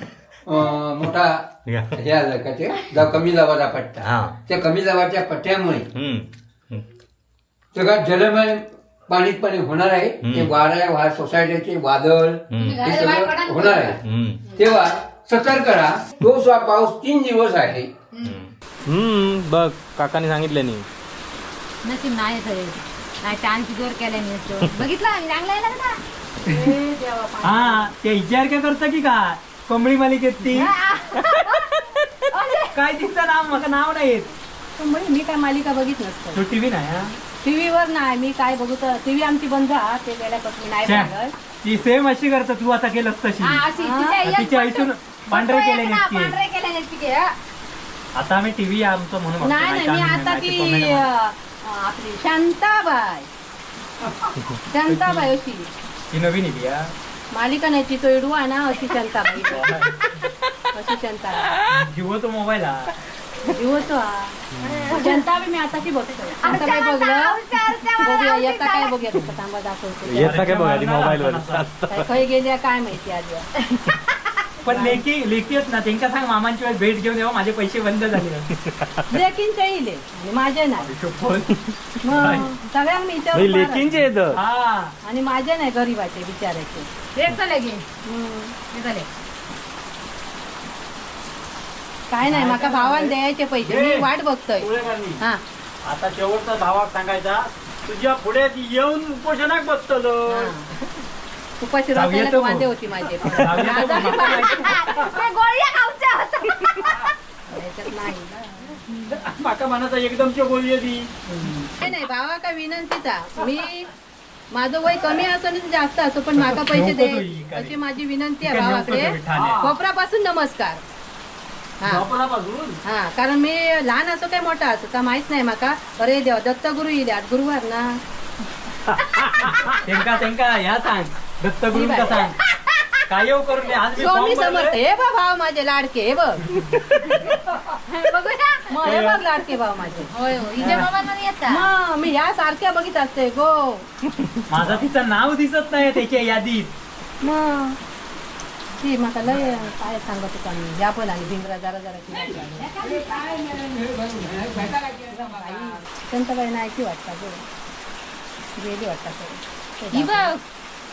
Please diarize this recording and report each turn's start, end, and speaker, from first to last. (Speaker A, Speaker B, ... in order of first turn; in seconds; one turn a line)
Speaker A: 0.5-1.4
Speaker B: 1.7-2.0
Speaker A: 2.0-5.9
Speaker B: 4.0-4.3
Speaker B: 5.9-6.8
Speaker A: 7.7-14.0
Speaker B: 10.2-10.5
Speaker B: 12.5-12.8
Speaker C: 12.6-14.0
Speaker B: 14.0-14.4
Speaker A: 14.6-17.9
Speaker B: 18.2-20.9
Speaker C: 21.8-26.0
Speaker D: 26.4-27.9
Speaker E: 27.4-30.7
Speaker C: 30.5-32.7
Speaker E: 32.8-34.4
Speaker D: 34.8-36.4
Speaker E: 36.4-37.1
Speaker D: 37.4-41.3
Speaker E: 40.8-41.1
Speaker E: 41.6-43.6
Speaker C: 43.4-47.3
Speaker D: 43.8-44.2
Speaker E: 44.2-46.3
Speaker E: 48.1-51.1
Speaker D: 49.4-53.3
Speaker D: 54.7-55.7
Speaker E: 54.9-55.3
Speaker E: 56.1-56.9
Speaker D: 57.3-59.8
Speaker E: 59.5-59.9
Speaker D: 60.7-61.6
Speaker E: 61.7-62.9
Speaker D: 63.5-64.4
Speaker B: 64.6-64.8
Speaker C: 64.6-65.2
Speaker D: 64.9-67.4
Speaker C: 66.4-69.0
Speaker D: 68.0-70.4
Speaker B: 70.1-72.1
Speaker E: 70.2-71.7
Speaker D: 71.9-73.5
Speaker E: 74.6-78.5
Speaker D: 74.7-75.0
Speaker B: 78.7-79.1
Speaker D: 79.1-80.9
Speaker E: 80.8-82.5
Speaker D: 82.0-83.9
Speaker B: 83.3-84.4
Speaker E: 84.3-84.9
Speaker D: 85.0-86.9
Speaker C: 87.2-87.8
Speaker D: 88.0-88.5
Speaker C: 88.7-89.1
Speaker D: 92.1-94.7
Speaker F: 92.2-95.2
Speaker F: 95.8-100.5
Speaker D: 100.3-100.9
Speaker D: 101.6-104.8
Speaker E: 102.0-102.7
Speaker E: 103.4-104.7
Speaker C: 103.8-107.1
Speaker D: 107.5-108.8
Speaker F: 109.1-111.1
Speaker D: 111.3-113.9
Speaker D: 114.5-120.8
Speaker E: 116.4-117.8
Speaker E: 118.5-119.6
Speaker F: 119.3-119.7
Speaker D: 121.8-122.1
Speaker F: 121.8-122.8
Speaker D: 122.8-128.0
Speaker E: 129.8-132.4
Speaker D: 131.7-132.3
Speaker E: 133.1-134.8
Speaker D: 134.0-137.3
Speaker C: 137.9-139.1
Speaker D: 138.7-140.9
Speaker F: 138.8-139.2
Speaker C: 140.1-141.6
Speaker D: 141.5-143.9
Speaker E: 144.5-146.7
Speaker D: 147.2-147.8
Speaker D: 148.8-152.7
Speaker C: 152.6-153.6
Speaker D: 154.7-157.4
Speaker D: 158.6-160.3
Speaker C: 159.9-160.4